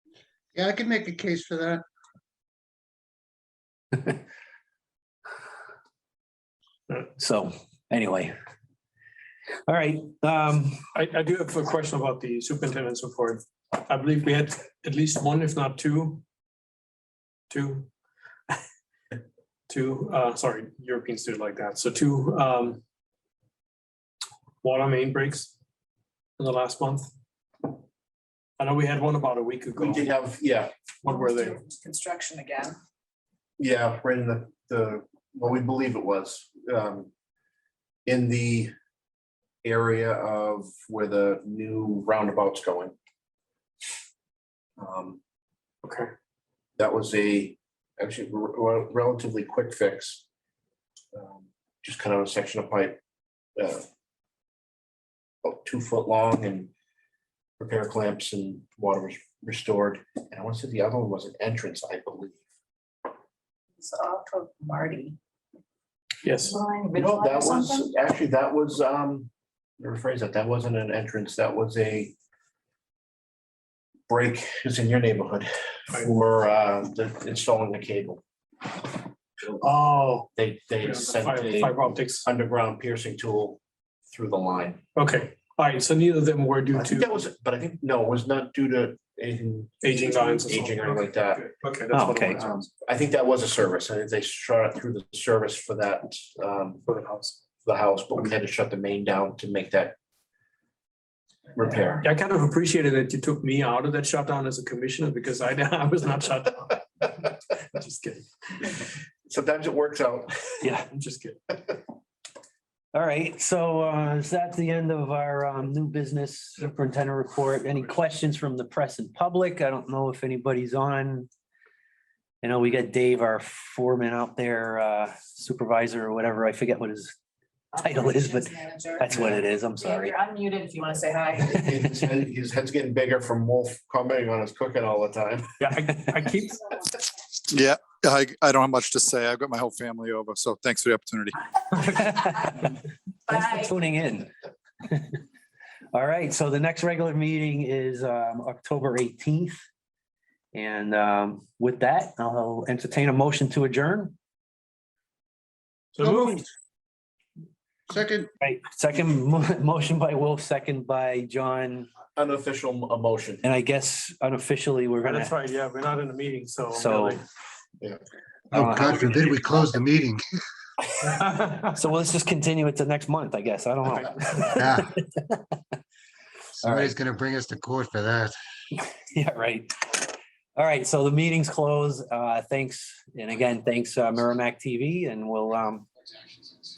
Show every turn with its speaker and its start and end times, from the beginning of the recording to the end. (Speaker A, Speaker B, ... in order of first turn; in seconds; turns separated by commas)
Speaker A: 0.6-1.8, Speaker B: 7.2-8.3, Speaker B: 9.7-10.9, Speaker C: 10.9-16.2, Speaker C: 17.5-17.9, Speaker C: 19.7-22.8, Speaker C: 24.6-25.5, Speaker C: 26.4-27.1, Speaker C: 28.6-30.1, Speaker D: 29.8-30.7, Speaker C: 31.0-31.6, Speaker E: 31.1-32.8, Speaker D: 33.6-37.1, Speaker D: 38.1-38.7, Speaker D: 39.6-43.0, Speaker D: 44.8-45.2, Speaker C: 45.9-46.1, Speaker D: 46.8-50.2, Speaker D: 51.1-53.0, Speaker D: 53.6-53.9, Speaker D: 55.4-56.7, Speaker D: 57.6-62.4, Speaker E: 63.8-65.2, Speaker C: 66.2-66.6, Speaker E: 66.5-67.9, Speaker D: 66.9-72.1, Speaker D: 74.1-78.2, Speaker C: 79.6-80.3, Speaker D: 80.3-84.8, Speaker C: 80.8-82.3, Speaker C: 85.0-87.2, Speaker D: 86.8-91.4, Speaker C: 89.8-92.7, Speaker B: 91.9-92.4, Speaker D: 92.8-96.8, Speaker C: 96.9-97.4, Speaker D: 97.6-100.0, Speaker D: 101.6-102.0, Speaker C: 102.0-108.7, Speaker D: 109.3-110.4, Speaker B: 110.6-110.9, Speaker C: 110.9-111.4, Speaker B: 112.9-121.3, Speaker B: 122.4-127.1, Speaker E: 127.7-129.1, Speaker B: 127.8-130.2, Speaker E: 129.8-131.5, Speaker D: 131.5-135.5, Speaker C: 135.6-136.7, Speaker F: 137.5-141.3, Speaker B: 141.9-144.3, Speaker E: 143.4-143.6, Speaker B: 144.8-145.2, Speaker B: 145.9-149.6, Speaker B: 150.5-154.2, Speaker C: 155.9-156.4, Speaker A: 157.9-158.3, Speaker B: 158.4-161.9, Speaker D: 162.1-163.4, Speaker B: 163.4-165.3, Speaker C: 165.0-167.2, Speaker B: 166.8-167.2, Speaker A: 168.5-170.2, Speaker B: 168.6-169.1, Speaker C: 171.0-171.7, Speaker B: 171.8-175.6, Speaker C: 173.9-174.5, Speaker A: 174.6-174.9, Speaker A: 176.6-178.3, Speaker B: 176.7-176.9, Speaker B: 178.7-185.9